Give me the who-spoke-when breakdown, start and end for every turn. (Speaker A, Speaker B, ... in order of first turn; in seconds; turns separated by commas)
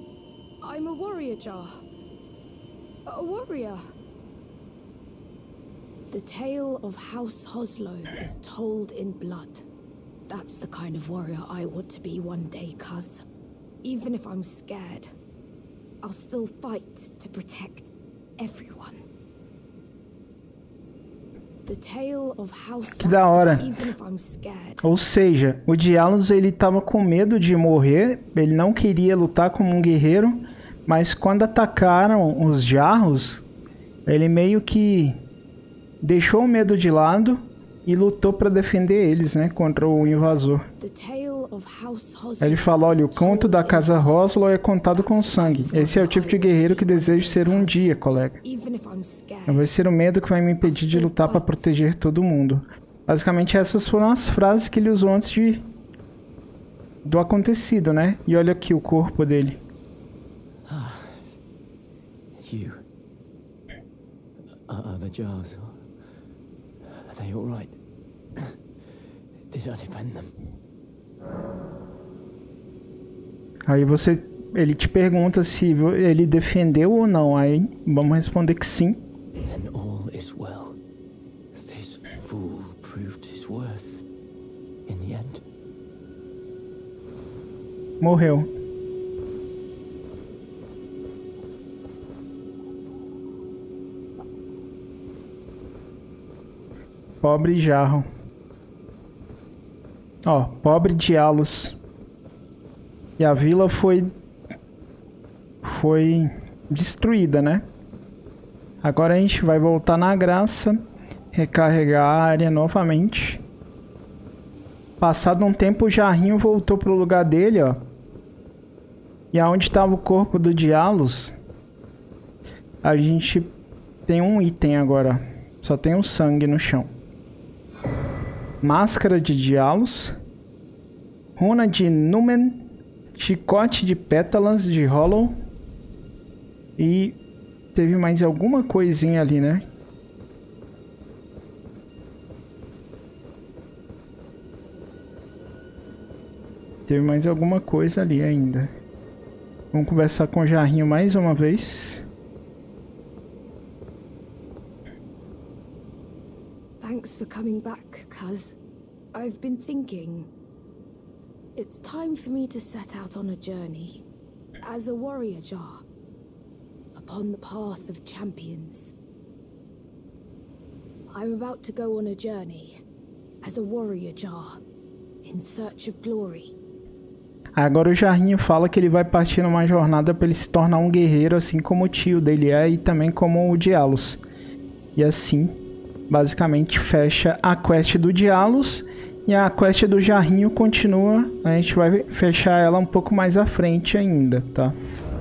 Speaker A: 0.6-1.8, Speaker A: 3.1-3.8, Speaker A: 6.1-9.7, Speaker A: 10.3-13.2, Speaker A: 13.8-15.1, Speaker A: 16.0-19.0, Speaker A: 21.7-24.8, Speaker B: 23.0-23.7, Speaker B: 24.8-33.4, Speaker B: 34.1-35.2, Speaker B: 36.0-40.6, Speaker A: 40.8-44.4, Speaker B: 42.4-48.4, Speaker A: 44.9-49.7, Speaker B: 49.5-55.7, Speaker A: 50.6-51.9, Speaker B: 57.0-59.6, Speaker C: 60.7-61.2, Speaker C: 62.4-62.8, Speaker C: 64.7-65.8, Speaker C: 66.9-67.8, Speaker C: 69.5-70.3, Speaker B: 73.7-79.0, Speaker C: 79.5-80.8, Speaker C: 81.5-84.0, Speaker C: 84.9-85.4, Speaker B: 88.0-88.5, Speaker B: 97.2-98.0, Speaker B: 100.2-101.8, Speaker B: 103.2-104.1, Speaker B: 105.6-107.7, Speaker B: 108.8-110.8, Speaker B: 111.3-113.4, Speaker B: 115.0-117.9, Speaker B: 119.3-121.3, Speaker B: 122.8-123.6, Speaker B: 124.1-126.9, Speaker B: 128.6-130.2, Speaker B: 131.4-132.7, Speaker B: 133.2-135.3, Speaker B: 136.8-137.2, Speaker B: 137.7-139.6, Speaker B: 146.9-148.7, Speaker B: 149.7-152.1, Speaker A: 156.8-158.6, Speaker A: 159.1-160.3, Speaker A: 161.6-164.0, Speaker A: 164.6-165.8, Speaker A: 166.9-168.9, Speaker A: 171.1-172.8, Speaker A: 173.4-174.6, Speaker A: 175.2-176.5, Speaker B: 177.6-184.2, Speaker B: 185.0-194.8